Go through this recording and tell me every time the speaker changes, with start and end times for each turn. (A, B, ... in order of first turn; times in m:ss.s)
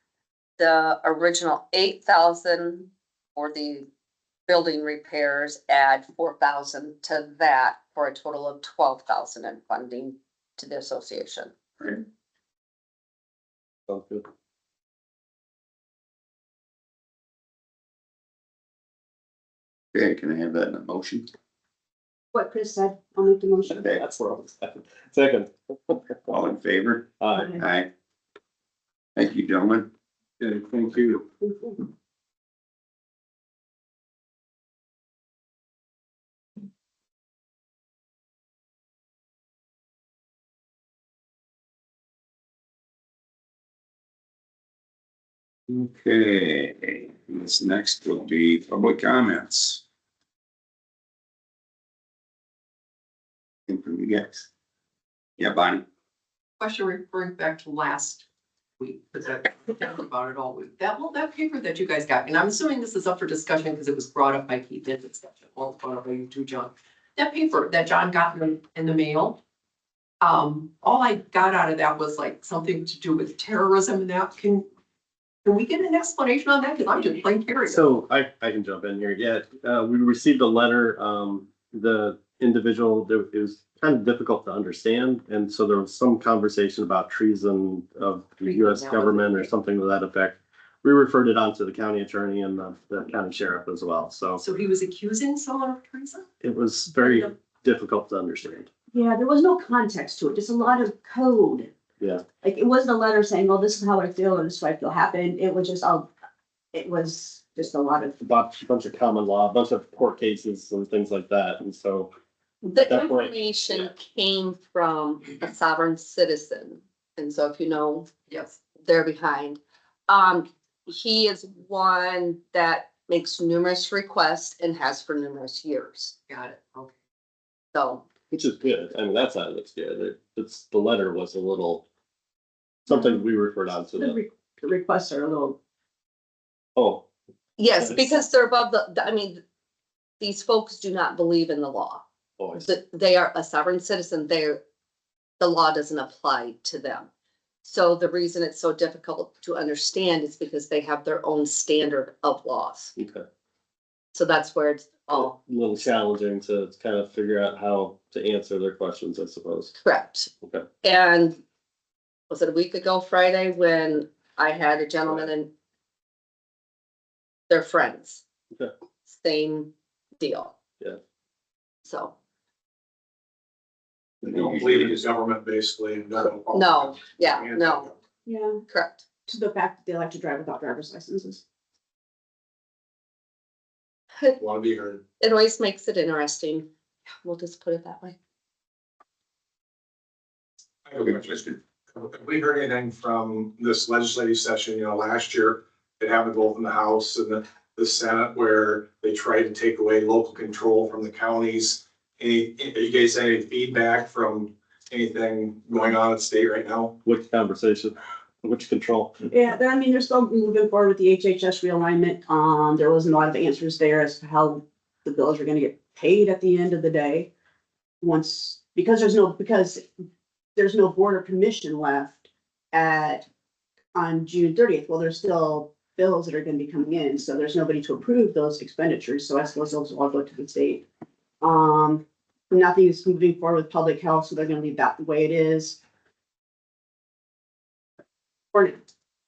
0:00.6-0:03.9 A
0:04.5-0:11.5 A
0:13.9-0:14.3 B
0:19.9-0:21.3 C
0:22.3-0:23.9 D
0:23.7-0:26.2 B
0:23.8-0:24.0 C
0:26.3-0:27.9 C
0:27.2-0:27.5 B
0:27.3-0:27.6 D
0:29.2-0:29.9 C
0:30.4-0:31.2 E
0:31.4-0:31.8 D
0:45.7-0:49.8 C
0:53.7-0:54.5 C
0:55.4-0:55.9 C
0:56.6-0:58.2 F
0:58.8-1:09.4 F
1:10.2-1:14.7 F
1:15.4-1:17.9 F
1:17.7-1:34.4 B
1:28.4-1:29.5 F
1:34.4-1:36.3 F
1:36.4-1:38.7 B
1:38.9-1:41.7 D
1:42.0-1:42.2 B
1:42.4-1:46.1 D
1:46.7-1:48.2 D
1:48.2-1:52.1 B
1:52.6-1:58.1 A
1:52.8-1:53.9 B
1:58.3-1:58.6 F
1:58.8-2:06.2 A
2:06.3-2:06.9 F
2:07.7-2:08.0 A
2:08.3-2:11.9 B
2:12.9-2:14.2 B
2:12.9-2:13.2 D
2:14.0-2:15.6 D
2:16.8-2:17.1 B
2:17.6-2:19.4 A
2:17.8-2:18.1 B
2:20.2-2:22.0 A
2:22.4-2:22.7 B
2:22.6-2:24.6 A
2:25.4-2:27.1 A
2:27.6-2:32.9 A
2:33.0-2:33.2 B
2:34.1-2:35.4 A
2:35.1-2:39.8 B
2:39.8-2:40.3 A
2:40.8-2:41.4 A
2:42.3-2:45.5 A
2:47.5-2:48.2 A
2:49.1-2:50.5 A
2:51.8-2:52.1 A
2:54.2-2:57.9 E
2:54.3-2:55.0 C
2:56.5-2:57.9 A
2:58.3-2:58.6 D
2:58.7-2:59.0 A
2:59.3-3:01.4 D
3:04.4-3:05.0 E
3:05.2-3:06.7 A
3:07.2-3:08.2 A
3:10.9-3:27.0 E
3:27.0-3:29.2 B
3:29.3-3:37.3 D
3:38.0-3:39.9 D
3:40.6-3:43.3 D
3:43.9-3:50.8 D
3:51.4-3:55.8 D
3:58.5-3:58.8 D